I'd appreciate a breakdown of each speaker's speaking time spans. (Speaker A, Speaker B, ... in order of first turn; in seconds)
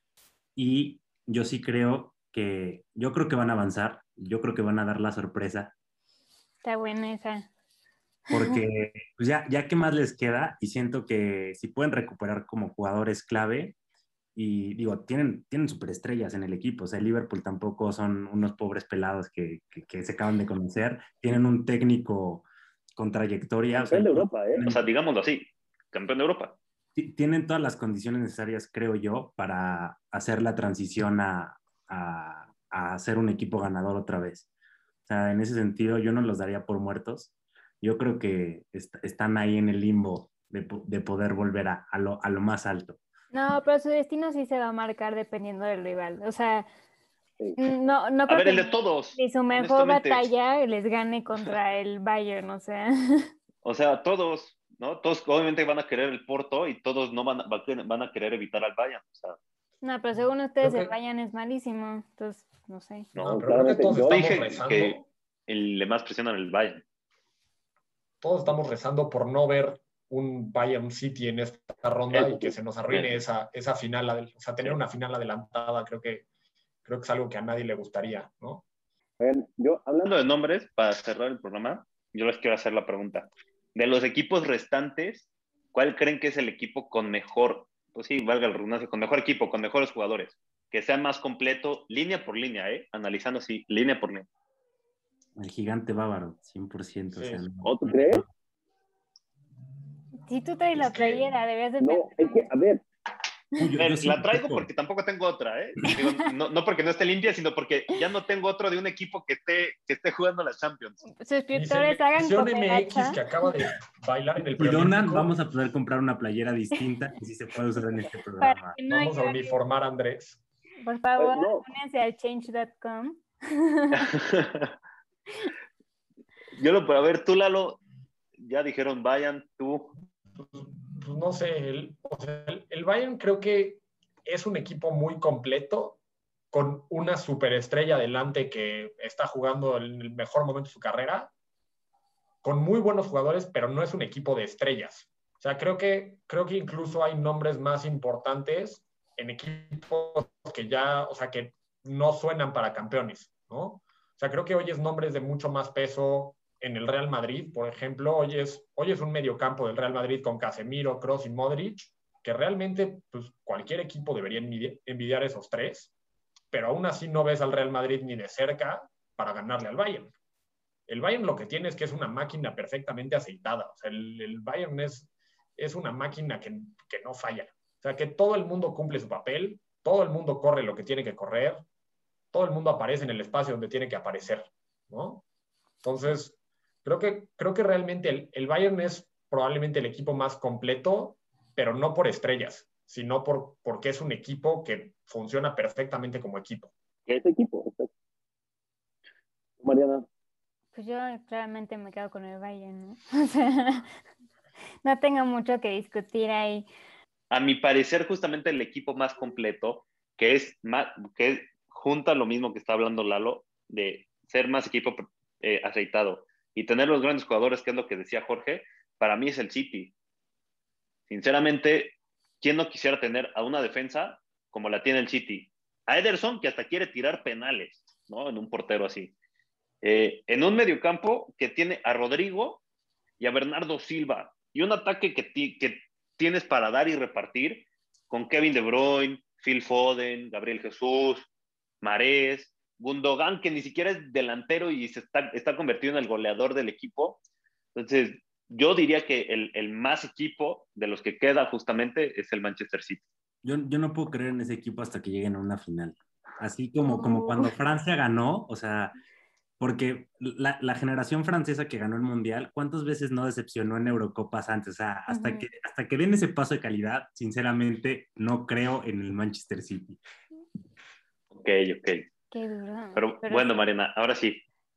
Speaker A: 0.6-5.7, 8.3-13.8, 14.3-24.8, 26.9-34.5, 35.1-43.0, 95.4-98.3, 103.6-104.7, 114.6-118.8, 253.4-258.9, 259.6-270.0
Speaker B: 6.6-7.5, 8.3-8.6, 43.3-46.7, 47.6-53.3, 59.8-63.1, 100.3-102.5, 111.2-113.2, 118.4-119.6, 120.8-124.1, 200.7-203.9, 204.8-206.7, 256.9-257.6, 265.1-265.5, 272.3-273.6
Speaker C: 23.7-24.6, 63.2-64.4, 72.2-72.5, 79.2-80.2, 97.6-98.2, 101.8-102.8, 121.2-121.7, 197.1-197.9, 199.6-200.1
Speaker D: 24.6-26.6, 48.3-50.3, 53.6-59.4, 63.2-63.5, 64.0-66.8, 72.9-73.2, 80.0-94.3, 103.8-111.0, 124.0-124.7, 126.5-127.8, 128.4-130.0, 207.3-219.9, 221.1-229.1, 229.8-232.6, 233.2-241.3, 241.8-247.2, 247.8-253.1, 271.3-272.1, 273.0-274.4
Speaker E: 60.6-60.9, 63.2-65.1, 68.2-76.2, 76.8-78.6, 97.1-97.5, 100.8-101.3, 111.5-115.3, 118.9-120.4, 130.4-136.0, 136.5-141.3, 142.4-165.9, 166.5-170.1, 170.9-181.6, 182.3-185.2, 185.8-196.7